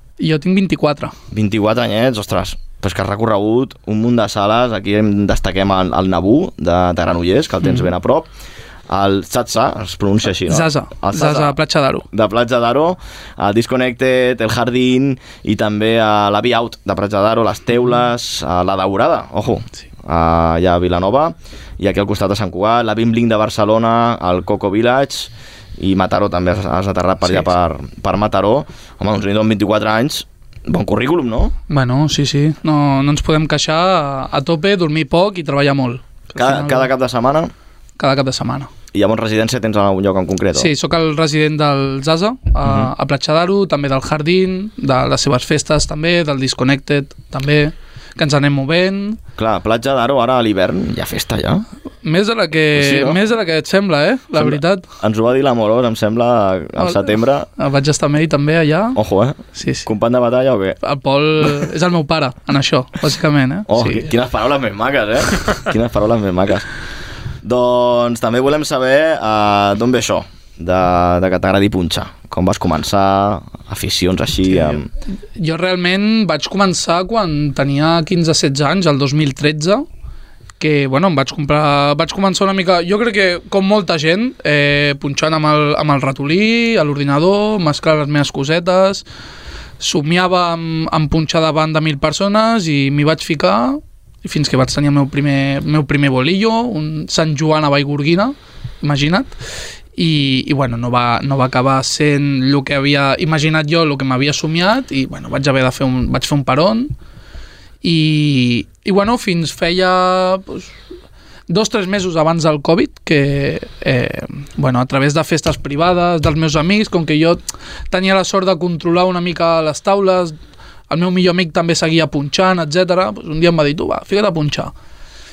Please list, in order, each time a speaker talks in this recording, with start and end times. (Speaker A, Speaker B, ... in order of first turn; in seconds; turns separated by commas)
Speaker A: 0.2-1.1, Speaker B: 1.3-8.3, Speaker B: 8.9-11.6, Speaker A: 10.5-12.1, Speaker B: 12.1-31.5, Speaker A: 31.7-36.9, Speaker B: 36.4-37.5, Speaker A: 38.0-38.7, Speaker B: 38.9-40.7, Speaker A: 40.5-49.2, Speaker B: 42.6-42.9, Speaker B: 49.4-51.6, Speaker A: 52.0-54.8, Speaker B: 52.7-53.2, Speaker B: 54.3-57.5, Speaker A: 56.8-59.0, Speaker B: 59.0-60.8, Speaker A: 59.5-59.9, Speaker A: 60.8-64.1, Speaker B: 63.7-66.7, Speaker B: 67.4-74.9, Speaker A: 75.3-79.8, Speaker A: 80.6-89.0, Speaker A: 89.8-99.3, Speaker A: 100.0-106.9, Speaker A: 107.8-110.7, Speaker A: 111.5-120.3, Speaker A: 120.9-124.7